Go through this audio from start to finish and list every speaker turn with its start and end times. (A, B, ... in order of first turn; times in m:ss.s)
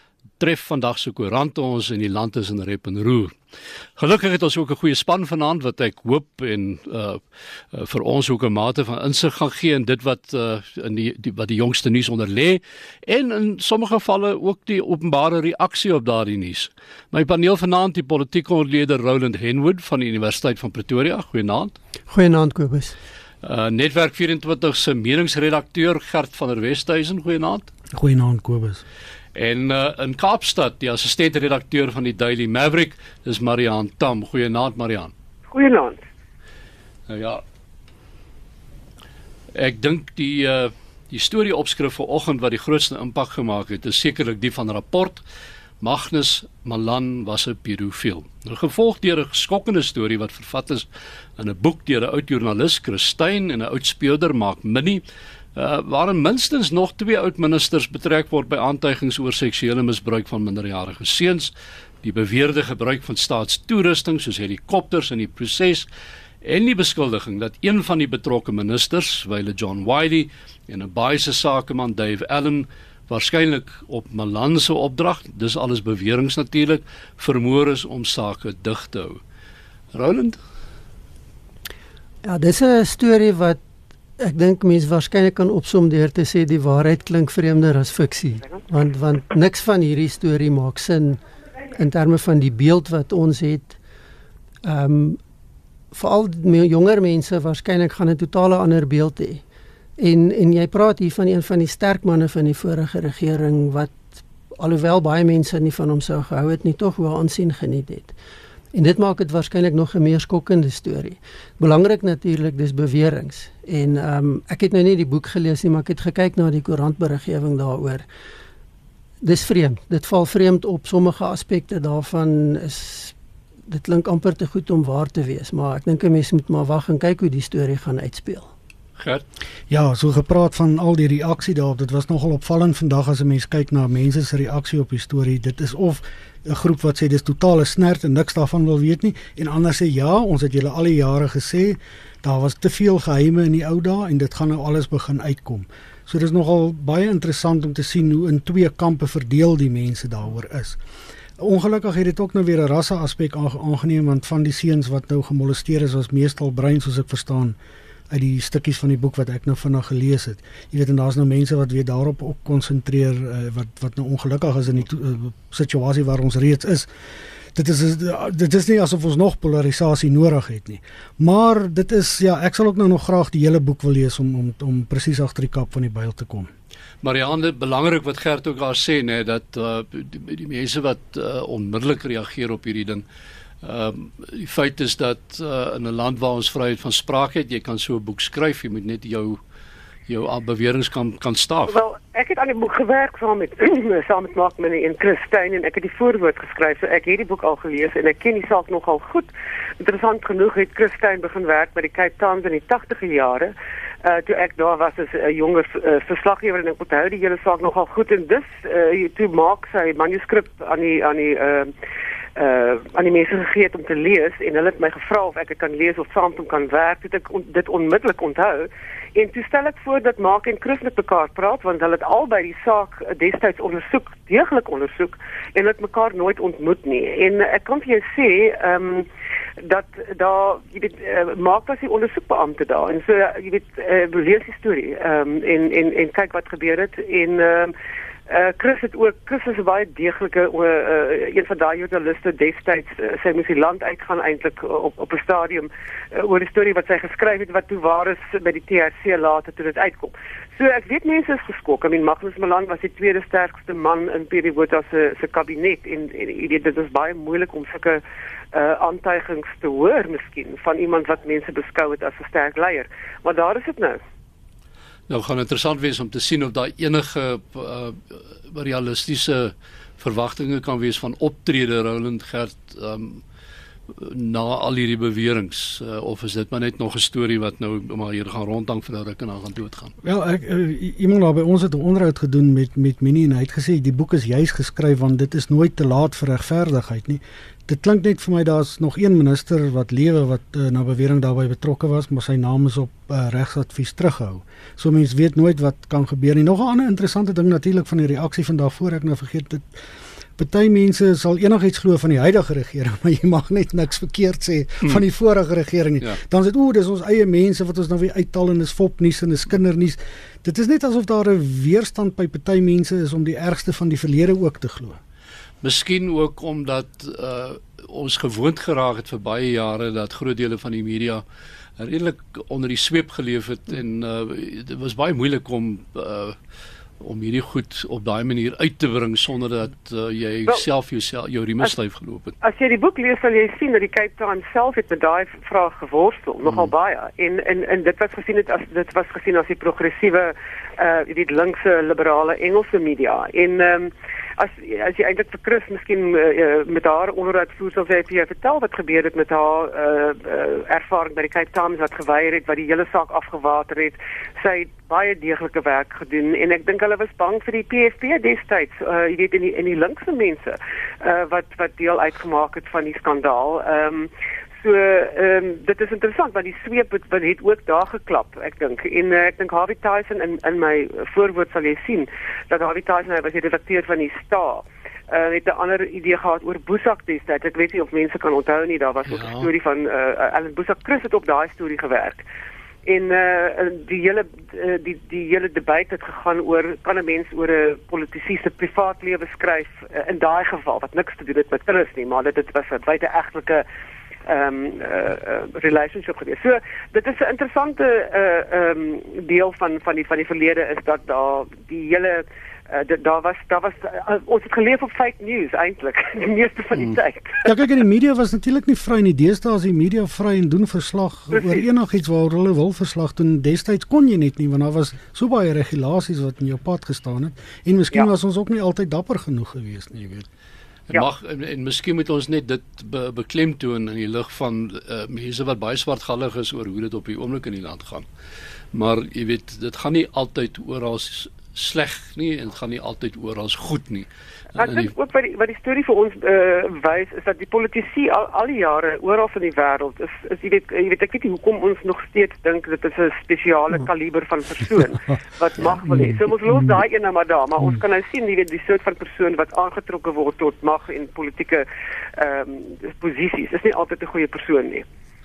0:00.4-0:03.4 A
0:04.0-0:21.7 A
0:22.1-0:22.9 B
0:23.4-0:27.7 A
0:27.9-0:28.8 C
0:29.3-0:35.1 A
0:35.5-0:36.0 D
0:37.1-0:37.4 A
0:39.5-0:45.2 A
0:45.8-0:55.0 A
0:55.5-1:05.9 A
1:06.4-1:19.2 A
1:19.9-1:20.4 A
1:22.2-1:23.6 B
1:24.2-1:31.2 B
1:31.7-1:33.8 B
1:34.6-1:35.2 B
1:35.9-1:39.4 B
1:40.0-1:48.1 B
1:48.7-1:58.0 B
1:59.2-2:03.1 B
2:03.7-2:08.5 B
2:09.0-2:09.2 A
2:09.7-2:30.8 C
2:31.4-2:37.6 C
2:38.1-2:46.9 C
2:47.5-2:56.5 C
2:57.0-3:03.0 A
3:03.6-3:09.4 A
3:10.1-3:11.8 A
3:11.7-3:31.7 D
3:32.4-3:49.0 D
3:49.6-3:57.7 D
3:58.3-4:18.0 D
4:18.5-4:24.0 D
4:25.1-4:33.2 A
4:33.9-4:39.9 A
4:40.0-4:59.8 C
5:00.4-5:15.0 C
5:15.6-5:21.2 A
5:21.8-5:26.4 A
5:27.0-5:32.3 A
5:32.4-6:22.2 D
6:19.1-6:19.5 A
6:22.8-6:33.6 D
6:34.2-6:47.5 D
6:47.4-7:00.3 C
6:51.3-6:51.6 D
7:00.9-7:08.0 A
7:08.7-7:14.9 A
7:14.6-7:34.8 D